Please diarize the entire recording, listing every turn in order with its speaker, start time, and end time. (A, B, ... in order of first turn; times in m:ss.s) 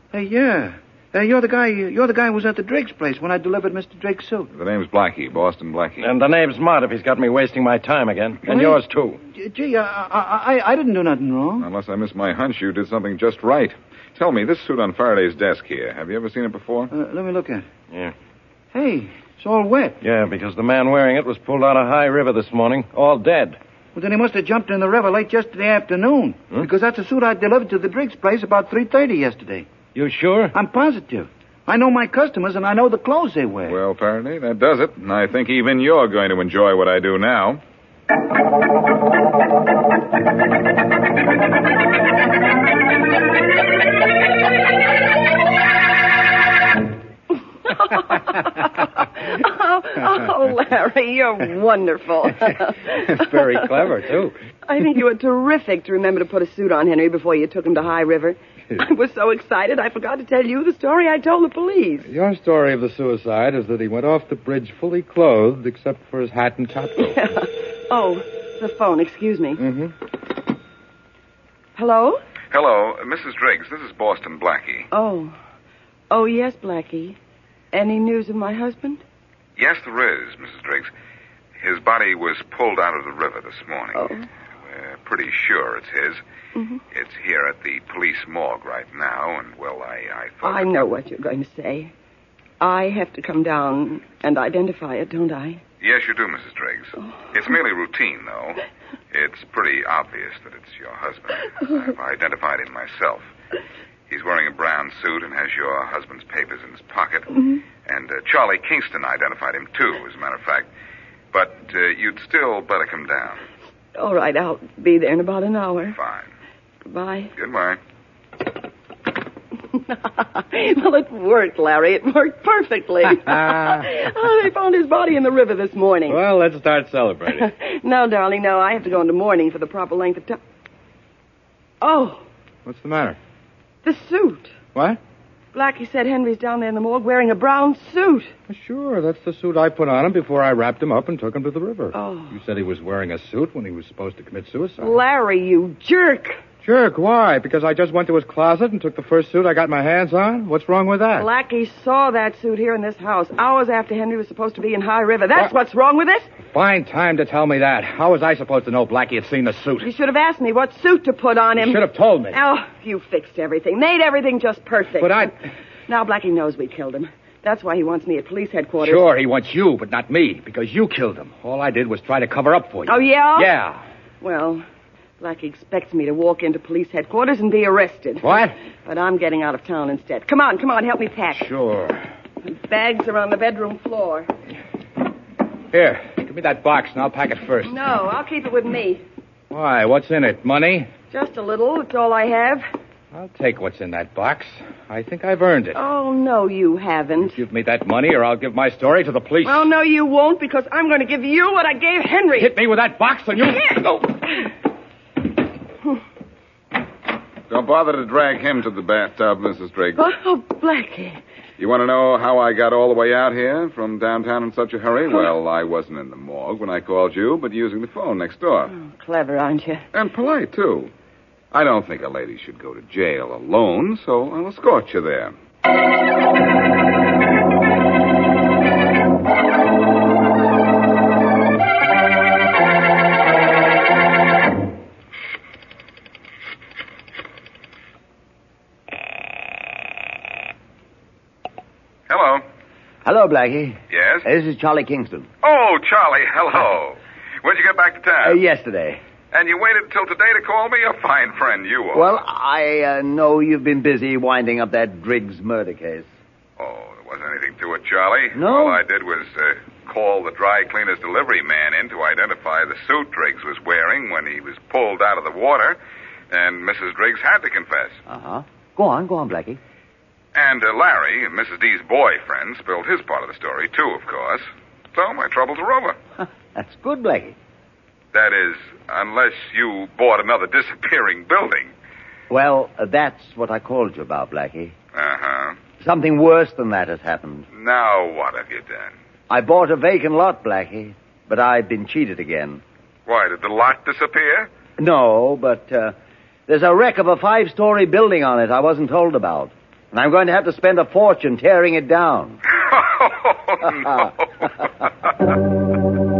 0:00.1-0:04.5 A
0:04.5-0:06.1 B
0:06.0-0:09.2 C
0:08.5-0:11.7 A
0:11.6-0:16.9 B
0:16.9-0:17.7 A
0:18.7-0:20.0 A
0:20.0-0:23.6 C
0:24.0-0:29.7 A
0:29.9-0:30.6 C
0:30.5-0:33.8 A
0:33.7-0:37.6 B
0:47.6-0:53.9 D
0:52.9-0:54.4 E
0:54.7-1:02.1 D
1:02.0-1:07.2 E
1:07.0-1:09.6 D
1:09.6-1:09.9 E
1:11.8-1:12.2 D
1:12.5-1:14.9 B
1:14.9-1:15.4 D
1:16.1-1:17.2 D
1:17.7-1:19.0 D
1:19.6-1:20.9 B
1:21.6-1:24.1 B
1:24.0-1:24.3 D
1:24.6-1:26.2 B
1:26.6-1:26.8 D
1:26.9-1:30.9 B
1:30.4-1:31.9 D
1:32.6-1:35.6 D
1:35.8-1:43.3 B
1:44.1-1:50.7 B
1:51.3-1:53.4 B
1:54.0-1:56.0 D
1:56.0-1:56.3 B
1:56.9-1:57.3 D
1:57.4-1:57.8 B
1:59.7-2:06.2 D
2:03.1-2:04.0 E
2:06.1-2:07.5 E
2:07.3-2:10.4 D
2:11.8-2:12.2 D
2:12.7-2:13.2 E
2:13.8-2:14.5 D
2:15.5-2:18.3 D
2:18.5-2:25.0 E
2:21.9-2:22.4 D
2:24.8-2:26.4 D
2:26.6-2:31.3 E
2:31.2-2:36.3 D
2:36.4-2:39.9 E
2:39.8-2:45.3 D
2:41.6-2:42.4 E
2:45.0-2:45.4 E
2:45.9-2:49.1 D
2:48.8-2:53.8 E
2:52.9-2:53.5 D
2:54.2-2:54.6 D
2:55.2-3:01.5 D
2:58.2-2:58.6 E
3:01.3-3:02.0 E
3:02.4-3:04.3 D
3:05.7-3:07.8 E
3:07.6-3:09.0 D
3:09.5-3:10.9 E
3:11.1-3:12.7 D
3:13.1-3:15.8 E
3:15.7-3:17.4 D
3:17.2-3:19.7 E
3:19.4-3:22.5 D
3:22.4-3:24.1 E
3:23.5-3:24.5 D
3:27.5-3:30.1 B
3:30.0-3:31.2 D
3:31.6-3:38.8 B
3:38.7-3:39.9 D
3:39.9-3:40.9 B
3:41.5-3:45.4 B
4:02.1-4:02.4 B
4:03.0-4:05.3 F
4:03.9-4:04.3 B
4:05.4-4:08.4 B
4:08.2-4:09.0 F
4:09.3-4:12.2 B
4:11.9-4:16.1 F
4:16.6-4:25.8 B
4:18.4-4:18.8 F
4:26.3-4:28.0 B
4:28.1-4:29.6 F
4:30.3-4:36.0 B
4:36.2-4:37.4 F
4:38.1-4:41.7 B
4:42.3-4:44.7 F
4:44.9-4:45.6 B
4:45.8-4:47.5 F
4:47.5-4:48.9 B
4:49.3-4:52.6 F
4:53.1-4:54.5 B
4:54.8-4:55.9 F
4:56.5-5:02.4 F
5:02.6-5:04.2 B